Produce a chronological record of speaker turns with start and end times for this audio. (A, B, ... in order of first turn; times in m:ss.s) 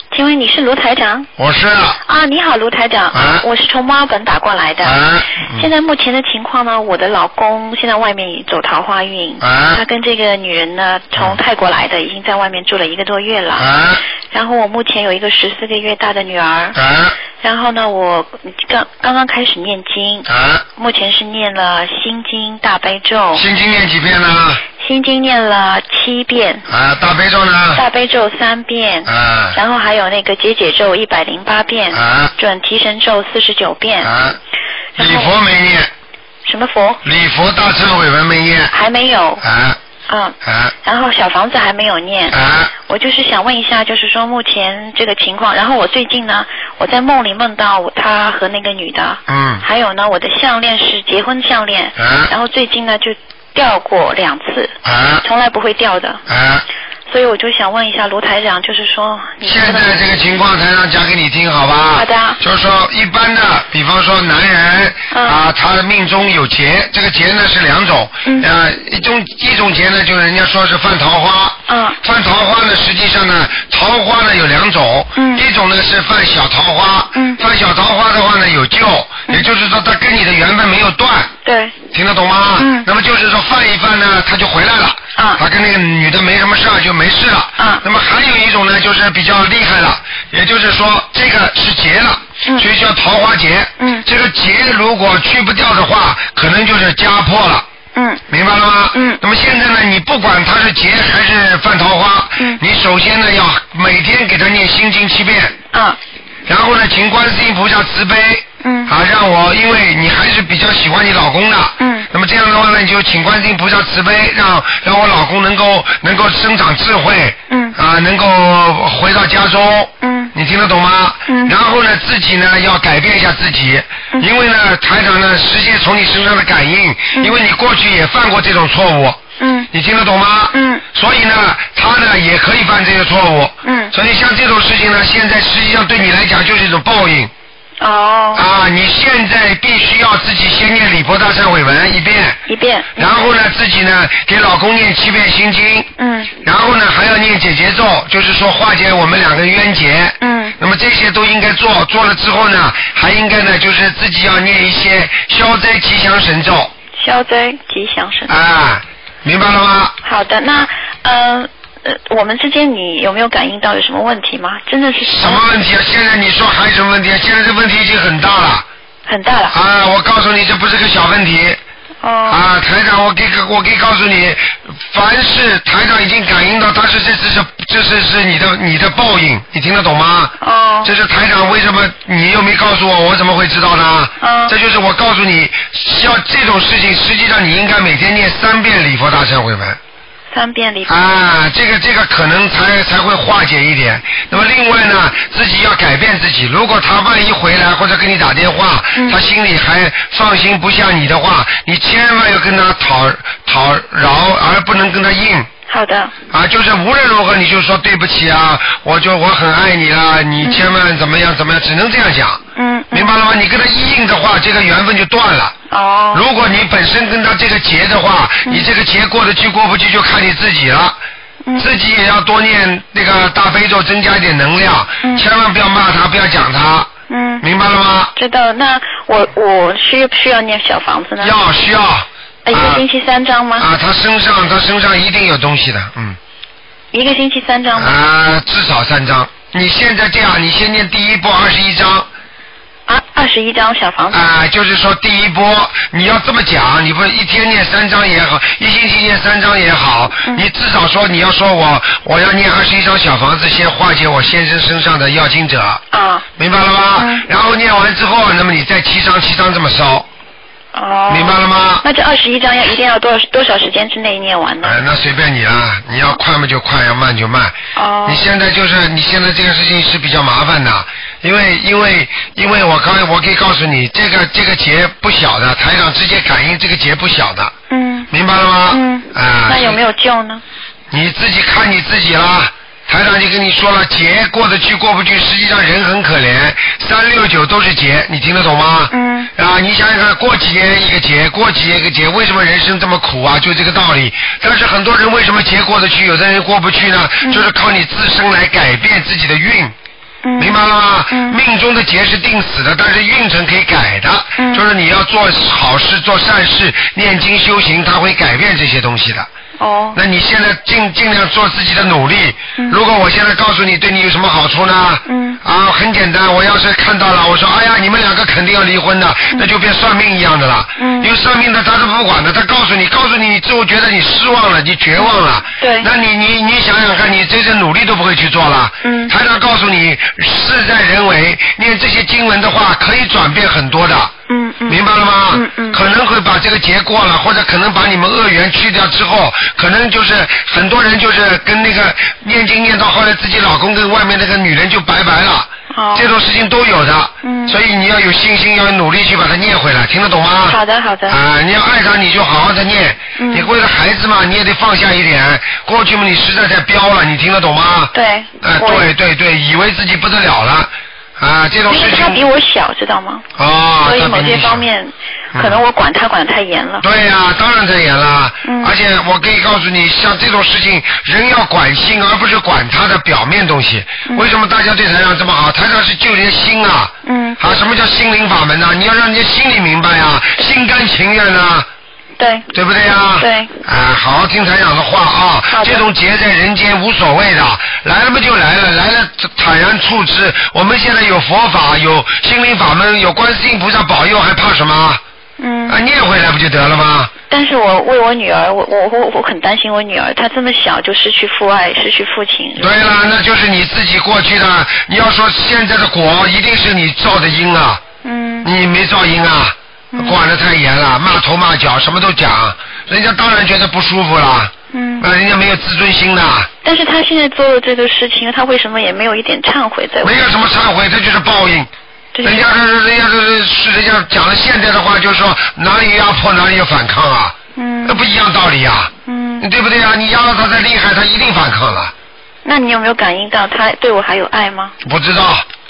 0:00.1-0:01.3 A
0:01.4-0:02.0 B
0:02.0-0:05.0 A
0:03.1-0:03.4 B
0:04.8-0:05.7 B
0:05.5-0:13.7 A
0:09.4-0:09.8 B
0:13.6-0:14.0 B
0:14.3-0:16.8 A
0:16.7-0:17.2 B
0:17.4-0:23.4 A
0:20.3-0:20.6 B
0:23.3-0:24.6 B
0:24.8-0:26.6 A
0:26.7-0:27.8 B
0:27.8-0:34.1 A
0:29.0-0:29.6 B
0:31.9-0:32.3 B
0:34.0-0:34.4 B
0:35.0-0:35.3 A
0:35.0-0:35.9 B
0:36.4-0:37.0 A
0:37.0-0:38.7 B
0:38.7-0:39.4 A
0:39.4-0:39.8 B
0:40.1-0:56.2 A
0:40.4-0:40.7 B
0:42.3-0:42.7 B
0:49.3-0:49.6 B
0:52.0-0:52.3 B
0:54.8-0:55.2 B
0:56.3-0:56.6 B
0:57.1-1:00.0 A
0:59.4-1:21.3 B
1:01.9-1:02.4 A
1:05.1-1:05.4 A
1:11.7-1:12.0 A
1:15.2-1:15.4 A
1:17.1-1:17.4 A
1:21.4-1:21.8 A
1:21.9-1:37.6 B
1:22.6-1:22.9 A
1:27.6-1:27.8 A
1:33.8-1:34.0 A
1:37.9-1:38.2 A
1:38.3-1:45.5 B
1:38.9-1:39.2 A
1:45.7-1:46.0 A
1:46.5-2:09.2 B
1:48.6-1:48.9 A
1:51.8-1:52.1 A
1:57.5-1:57.8 A
2:00.0-2:00.3 A
2:01.2-2:01.5 A
2:09.4-2:09.7 A
2:09.7-2:17.3 B
2:10.5-2:10.8 A
2:13.6-2:13.9 A
2:17.8-2:18.4 A
2:18.3-2:22.4 B
2:22.5-2:23.0 A
2:23.0-2:25.9 B
2:26.0-2:26.3 A
2:26.4-2:36.7 B
2:30.2-2:30.6 A
2:37.0-2:38.3 A
2:38.3-2:40.0 B
2:40.0-2:45.4 A
2:45.0-2:48.6 B
2:49.1-2:49.5 A
2:49.5-2:51.6 B
2:52.0-2:52.4 A
2:52.3-3:00.3 B
3:00.4-3:00.9 A
3:00.8-3:09.8 B
3:04.2-3:04.5 A
3:10.3-3:10.9 A
3:10.9-3:25.5 B
3:25.7-3:26.1 A
3:26.3-3:32.4 B
3:32.6-3:33.1 A
3:32.9-3:35.5 B
3:35.7-3:36.2 A
3:36.1-3:41.0 B
3:41.6-3:46.9 B
3:47.1-3:47.4 A
3:47.4-3:48.1 B
3:48.2-3:51.3 A
3:51.2-3:52.8 B
3:52.4-3:53.7 A
3:53.6-3:56.2 B
3:56.9-3:57.9 A
3:57.8-4:02.1 B
4:02.9-4:04.3 A
4:04.1-4:15.8 B
4:15.9-4:16.2 A
4:16.4-4:20.1 B
4:17.0-4:17.2 A
4:20.7-4:24.8 A
4:21.1-4:21.8 B
4:24.6-4:37.5 B
4:27.7-4:28.2 A
4:37.7-4:38.1 A
4:38.1-4:39.8 B
4:38.7-4:40.4 A
4:40.9-4:59.7 B
4:48.9-4:49.3 A
5:00.2-5:00.6 A
5:00.4-5:09.3 B
5:01.1-5:01.4 A
5:04.4-5:04.6 A
5:09.6-5:10.0 A
5:09.9-5:34.1 B
5:15.0-5:15.4 A
5:20.8-5:21.1 A
5:25.6-5:25.9 A
5:28.8-5:29.1 A
5:34.3-5:34.8 A
5:34.7-6:02.2 B
5:35.3-5:35.8 A
5:45.7-5:46.1 A
5:47.2-5:47.6 A
5:50.5-5:51.2 A
5:53.2-5:53.5 A
5:57.9-5:58.9 A
6:01.7-6:03.2 A
6:03.4-6:04.6 B
6:03.8-6:06.8 A
6:05.3-6:05.6 B
6:06.8-6:21.6 B
6:08.4-6:08.7 A
6:17.0-6:17.6 A
6:22.2-6:22.5 A
6:22.5-6:35.0 B
6:23.2-6:23.6 A
6:25.5-6:25.8 A
6:35.4-6:35.8 A
6:35.7-6:37.1 B
6:37.3-6:42.8 A
6:42.6-6:47.8 B
6:48.0-6:48.5 A
6:48.4-6:56.5 B
6:49.9-6:50.2 A
6:54.7-6:55.0 A
6:56.6-7:00.2 A
7:00.0-7:01.7 B
7:02.1-7:02.5 A
7:02.2-7:11.9 B
7:07.6-7:08.0 A
7:09.0-7:09.4 A
7:12.4-7:14.7 A
7:14.8-7:15.4 B